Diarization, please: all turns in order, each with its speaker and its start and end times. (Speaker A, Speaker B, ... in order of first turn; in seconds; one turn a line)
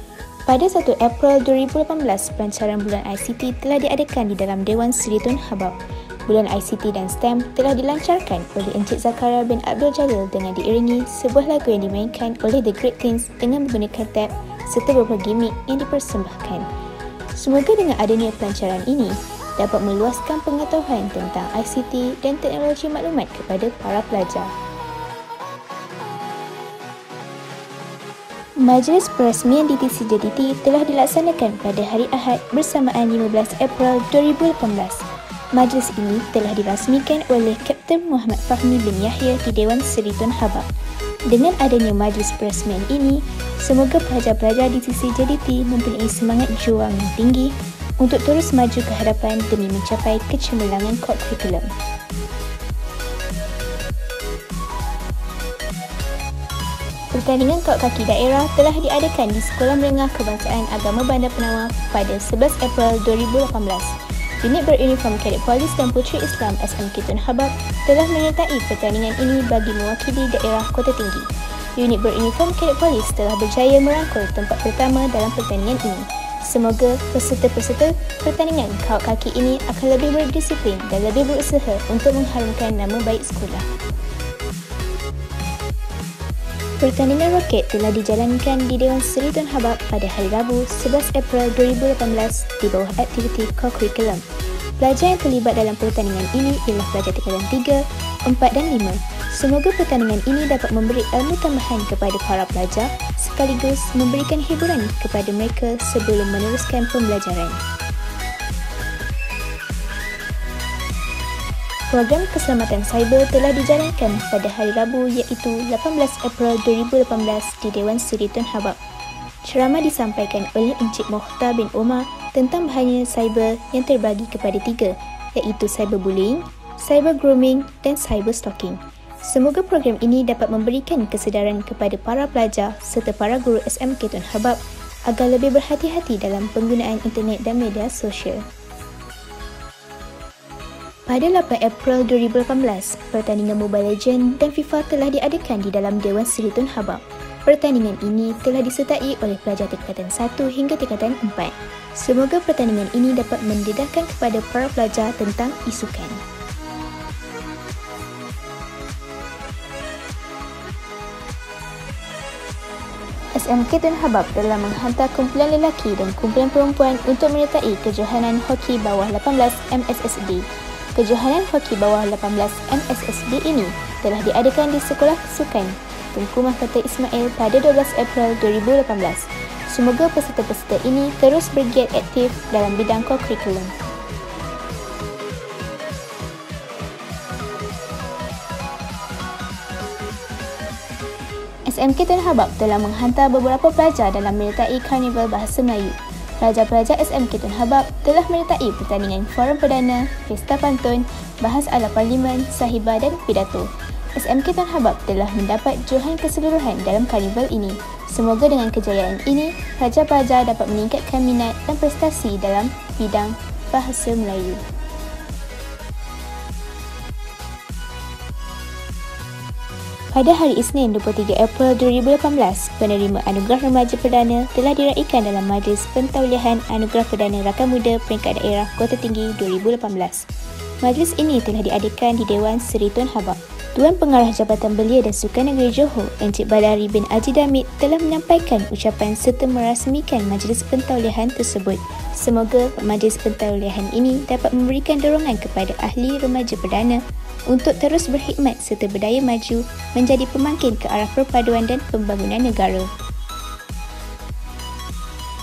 Speaker A: 0.5-16.7
Speaker A: 17.3-24.5
Speaker A: 28.6-40.7
Speaker A: 41.3-51.7
Speaker A: 57.1-83.7
Speaker A: 86.8-94.2
Speaker A: 94.8-107.6
Speaker A: 111.9-118.8
Speaker A: 119.4-138.4
Speaker A: 141.1-156.2
Speaker A: 163.3-183.7
Speaker A: 191.7-214.6
Speaker A: 220.1-230.3
Speaker A: 230.8-252.9